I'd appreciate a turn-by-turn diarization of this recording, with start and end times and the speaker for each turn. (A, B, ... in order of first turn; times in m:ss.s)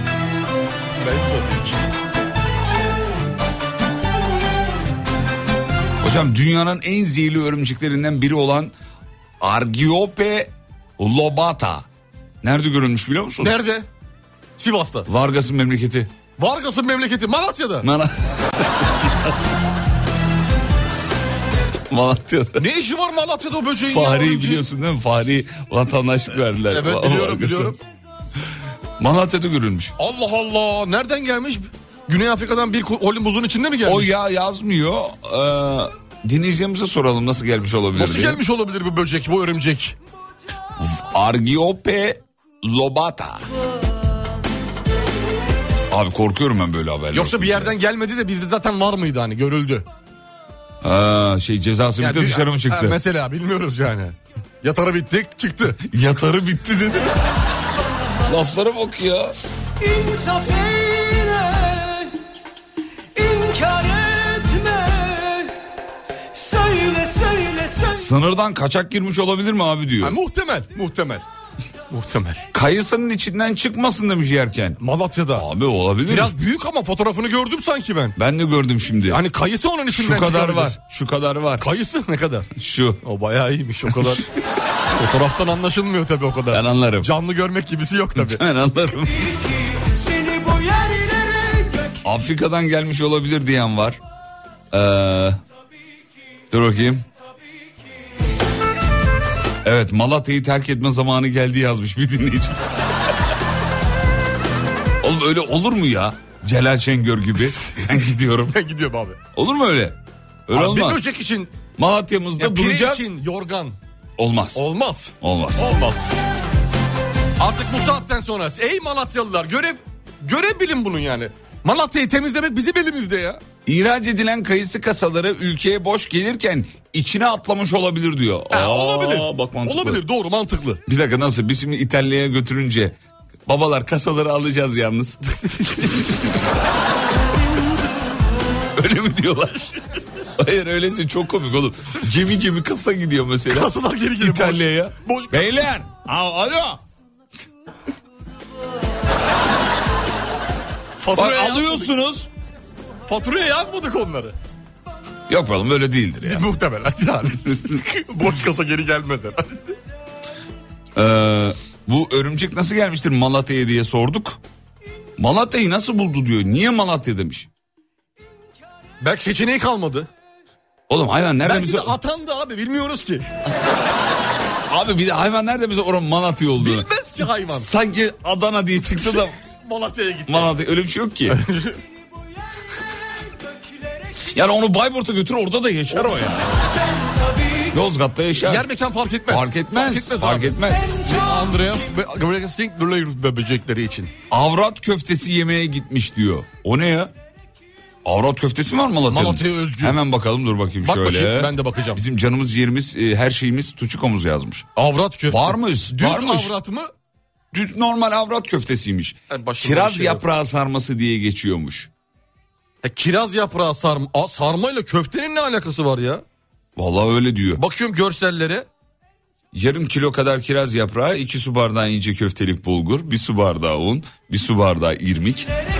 0:01.0-0:01.8 A
0:06.0-0:08.7 B
0:09.4-0:11.8 B
0:12.4-0:13.6 B
0:13.4-0:13.9 A
0:14.6-0:15.1 A
0:15.0-0:16.1 B
0:16.4-0:17.9 A
0:17.8-0:19.4 B
0:21.9-0:22.6 B
0:22.6-0:24.6 A
0:23.8-0:27.8 B
0:26.7-0:27.8 A
0:29.0-0:29.9 B
0:30.0-0:34.1 A
0:33.8-0:38.4 B
0:37.9-0:40.0 A
0:40.8-0:43.4 B
0:45.9-0:47.8 B
0:47.1-0:49.8 A
0:50.8-0:53.0 B
0:52.0-0:55.8 A
0:55.8-0:57.2 B
0:58.2-0:59.4 B
0:59.9-1:01.8 C
1:03.2-1:05.4 C
1:06.4-1:07.7 C
1:07.8-1:10.2 B
1:10.0-1:11.2 A
1:11.9-1:12.5 A
1:12.5-1:14.8 B
1:14.8-1:15.5 A
1:15.3-1:16.3 B
1:16.1-1:18.2 A
1:18.2-1:19.2 B
1:19.1-1:20.8 A
1:19.9-1:21.7 B
1:21.6-1:22.5 A
1:22.6-1:23.0 B
1:23.0-1:24.2 A
1:23.9-1:24.2 B
1:24.9-1:28.4 A
1:26.5-1:27.1 B
1:28.2-1:29.3 B
1:30.1-1:31.8 C
1:32.0-1:34.0 B
1:34.7-1:35.4 B
1:36.5-1:37.0 B
1:39.6-1:43.1 B
1:45.0-1:48.6 B
1:48.5-1:49.2 A
1:49.4-1:51.0 B
1:50.5-1:51.5 A
1:51.8-1:53.1 B
1:52.4-1:53.8 A
1:54.2-1:54.6 B
1:54.6-1:56.1 A
1:55.2-1:55.8 B
1:57.4-2:03.4 A
2:03.6-2:10.0 B
2:08.5-2:10.8 A
2:10.9-2:15.2 B
2:15.4-2:16.1 A
2:18.7-2:19.8 B
2:20.4-2:26.8 B
2:23.5-2:25.7 A
2:31.0-2:31.9 A
2:31.1-2:32.3 B
2:33.1-2:34.3 A
2:35.3-2:36.4 B
2:36.2-2:39.7 A
2:40.9-2:44.4 B
2:45.2-2:47.5 B
2:49.0-2:50.1 A
2:50.9-2:52.0 B
2:51.4-2:53.3 A
2:54.7-2:56.9 B
2:56.6-2:57.7 A
2:57.5-2:59.4 B
2:59.0-3:00.5 A
3:00.3-3:01.4 B
3:01.3-3:01.8 A
3:04.3-3:06.5 B
3:05.9-3:06.4 A
3:07.7-3:08.7 B
3:08.4-3:14.1 A
3:09.3-3:11.0 B
3:14.3-3:17.1 B
3:18.0-3:24.7 B
3:19.1-3:20.0 A
3:20.8-3:22.0 A
3:24.8-3:26.9 A
3:25.3-3:26.6 B
3:27.5-3:31.9 B
3:29.3-3:30.2 A
3:32.8-3:36.2 A
3:36.8-3:37.6 B
3:37.6-3:38.6 A
3:39.5-3:45.5 B